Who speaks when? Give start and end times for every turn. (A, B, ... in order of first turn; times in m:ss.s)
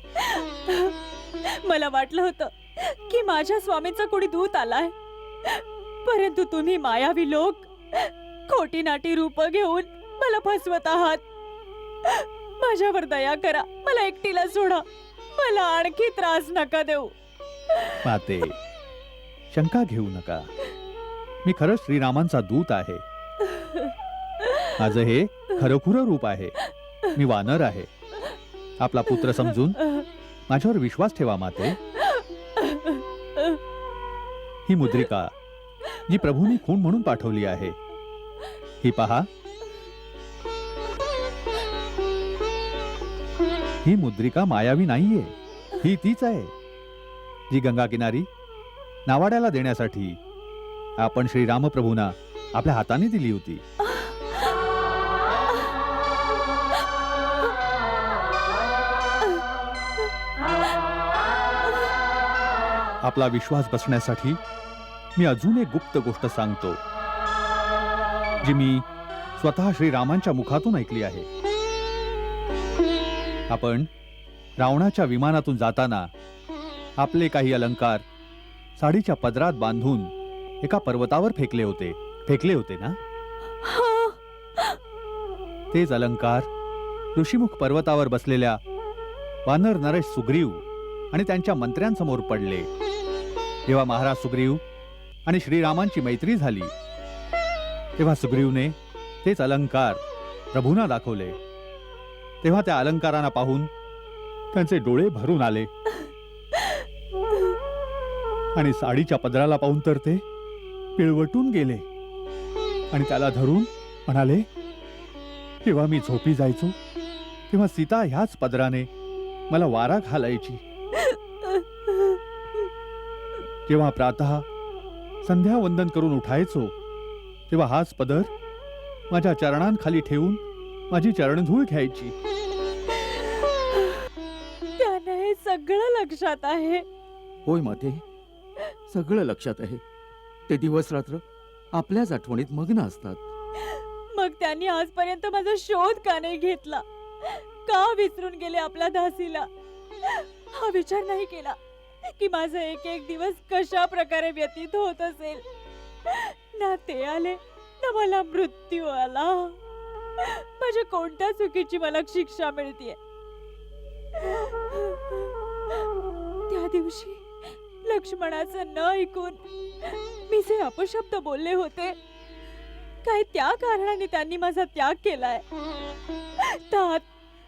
0:00.2-0:11.2 A
0:12.1-0:17.2 A
0:18.0-0:18.6 B
0:19.5-0:20.5 B
0:21.4-0:23.0 B
0:23.5-0:23.8 A
0:24.4-0:24.7 A
0:24.8-0:26.6 B
0:27.1-0:27.9 B
0:28.8-0:29.8 B
0:30.5-0:31.8 B
0:32.1-0:33.4 A
0:34.7-0:35.3 B
0:36.1-0:37.8 B
0:38.8-0:39.3 B
0:43.8-0:46.5 B
0:47.5-0:48.3 B
0:49.1-0:50.2 B
0:51.0-0:53.6 B
1:03.0-1:04.4 B
1:05.2-1:06.8 B
1:08.4-1:11.3 B
1:13.5-1:13.9 B
1:14.6-1:16.1 B
1:17.0-1:18.0 B
1:18.8-1:23.0 B
1:23.6-1:24.2 A
1:25.7-1:26.5 B
1:27.2-1:28.6 B
1:29.5-1:32.7 B
1:33.7-1:34.6 B
1:35.3-1:36.7 B
1:38.0-1:40.0 B
1:40.5-1:41.4 B
1:42.4-1:43.7 B
1:44.5-1:45.7 B
1:48.6-1:50.2 B
1:51.0-1:51.9 B
1:52.9-1:54.4 B
1:55.6-1:56.8 B
1:57.5-1:58.9 B
1:59.5-2:00.6 B
2:03.7-2:04.5 B
2:05.2-2:06.8 B
2:07.5-2:08.3 B
2:09.1-2:12.1 B
2:14.8-2:16.8 A
2:17.4-2:18.0 C
2:18.9-2:19.8 C
2:20.5-2:23.2 C
2:24.1-2:29.5 A
2:30.0-2:35.4 A
2:36.1-2:39.6 A
2:40.2-2:43.0 A
2:44.2-2:45.3 A
2:46.5-2:47.3 A
2:47.8-2:52.0 A
2:53.0-2:55.4 A
2:56.4-2:57.1 A